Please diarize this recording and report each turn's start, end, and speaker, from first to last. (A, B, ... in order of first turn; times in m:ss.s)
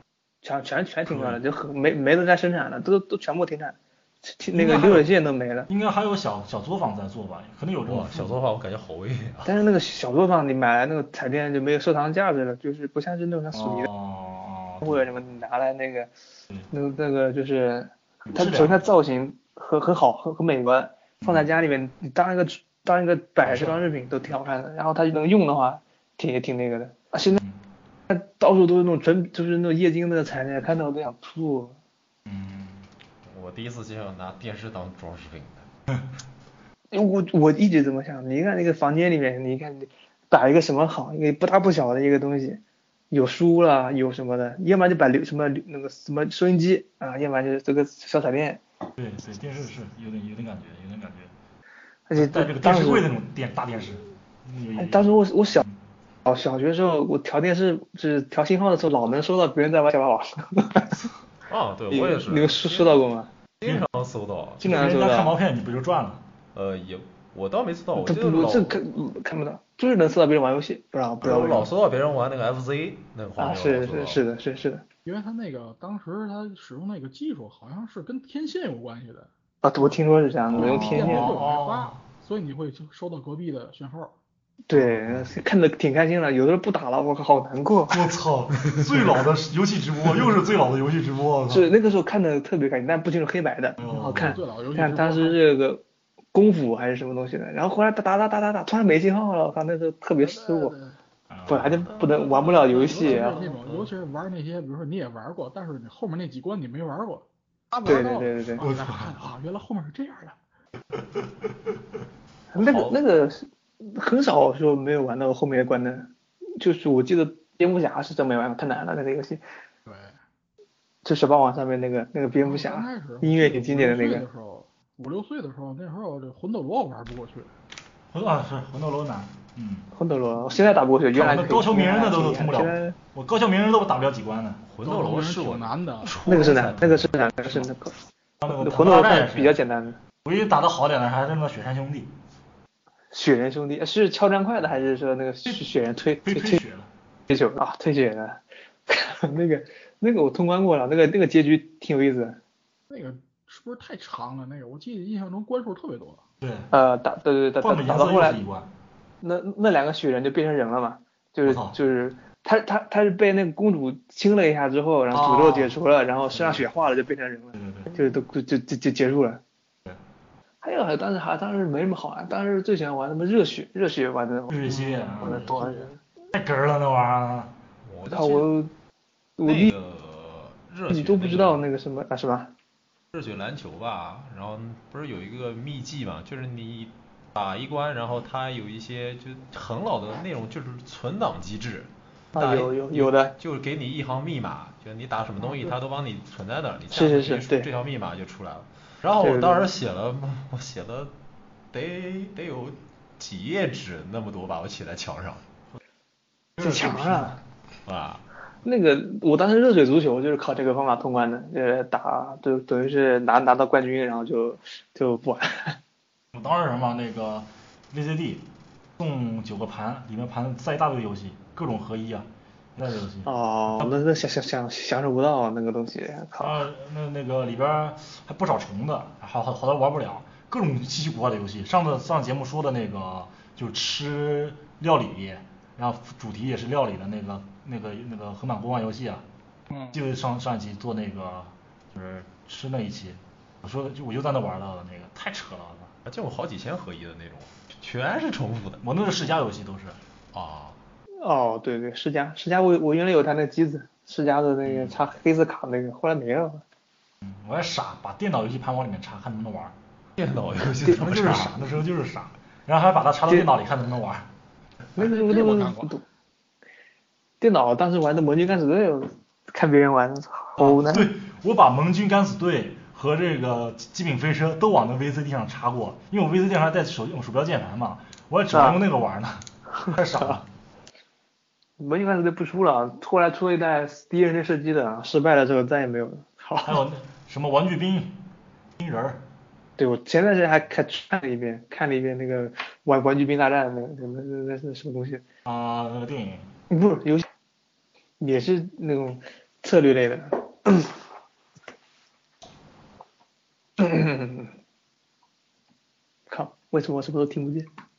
0:00.4-0:05.7 A
0:04.5-0:05.1 B
0:05.7-0:08.4 B
0:07.9-0:09.5 C
0:09.4-0:13.9 A
0:13.5-0:15.0 B
0:14.8-0:16.1 A
0:16.7-0:27.4 A
0:18.2-0:18.8 B
0:21.2-0:21.5 B
0:23.4-0:23.8 B
0:27.3-0:27.6 B
0:28.1-0:31.8 A
0:32.3-0:32.8 B
0:33.2-0:35.6 C
0:36.9-0:42.6 A
0:43.1-0:48.6 A
0:49.0-0:51.3 B
0:52.1-0:53.1 A
0:52.1-0:55.7 B
0:54.8-0:55.6 A
0:56.2-1:01.0 A
1:01.5-1:03.0 C
1:01.9-1:03.3 A
1:03.6-1:04.7 C
1:03.6-1:03.9 B
1:04.6-1:05.3 A
1:04.6-1:06.2 B
1:06.5-1:08.8 C
1:07.9-1:11.7 A
1:11.2-1:14.2 C
1:13.4-1:14.8 A
1:15.0-1:19.3 D
1:19.6-1:21.4 A
1:20.6-1:24.1 D
1:20.8-1:22.0 B
1:24.7-1:28.0 A
1:24.7-1:25.3 B
1:27.9-1:31.7 B
1:31.5-1:35.8 A
1:33.8-1:34.4 B
1:33.8-1:35.4 D
1:36.3-1:40.7 A
1:40.2-1:41.0 D
1:41.3-1:41.9 B
1:41.5-1:43.4 A
1:42.0-1:42.7 C
1:42.6-1:50.4 D
1:43.3-1:43.9 C
1:47.8-1:48.6 A
1:52.5-1:59.4 A
1:52.6-1:53.0 C
1:59.8-2:00.2 D
2:01.0-2:04.2 A
2:02.4-2:07.5 D
2:08.1-2:09.9 B
2:09.9-2:12.9 A
2:11.1-2:14.6 B
2:14.6-2:16.6 C
2:14.8-2:16.2 D
2:16.2-2:20.0 A
2:16.4-2:17.6 B
2:18.4-2:19.6 B
2:20.2-2:22.1 B
2:23.1-2:26.6 A
2:26.2-2:26.9 B
2:27.3-2:32.4 A
2:32.9-2:36.2 D
2:36.4-2:36.7 B
2:36.7-2:38.4 A
2:37.6-2:38.7 B
2:39.2-2:49.4 A
2:41.4-2:41.8 B
2:45.1-2:45.8 B
2:46.3-2:46.7 B
2:47.5-2:47.9 B
2:50.6-2:56.0 A
2:54.5-2:55.7 B
2:56.3-2:57.5 B
2:57.8-2:58.5 C
2:58.0-2:58.7 A
2:59.4-2:59.7 A
2:59.4-3:01.6 C
3:00.9-3:02.5 A
3:03.1-3:21.1 C
3:12.3-3:13.3 A
3:15.4-3:15.7 A
3:16.9-3:17.7 A
3:19.2-3:19.7 A
3:21.7-3:25.4 C
3:26.6-3:27.3 B
3:26.6-3:27.4 A
3:27.8-3:28.2 C
3:28.6-3:35.8 A
3:36.3-3:38.4 B
3:39.0-3:44.0 B
3:43.2-3:46.7 A
3:46.4-3:59.2 B
3:59.7-4:00.0 D
3:59.9-4:05.9 B
4:06.0-4:08.8 C
4:08.8-4:10.0 B
4:10.3-4:10.8 C
4:11.2-4:16.6 A
4:17.2-4:19.7 B
4:20.2-4:21.7 C
4:20.8-4:21.2 A
4:20.9-4:24.3 B
4:24.9-4:26.0 A
4:25.0-4:25.9 D
4:27.4-4:31.1 A
4:30.6-4:40.5 B
4:38.5-4:38.8 A
4:41.8-4:46.8 A
4:46.6-4:48.2 B
4:48.8-4:49.2 B
4:49.8-4:55.2 A
4:55.4-4:56.5 B
4:56.7-4:57.2 A
4:58.2-5:00.9 A
5:03.8-5:04.5 A
5:06.3-5:07.7 A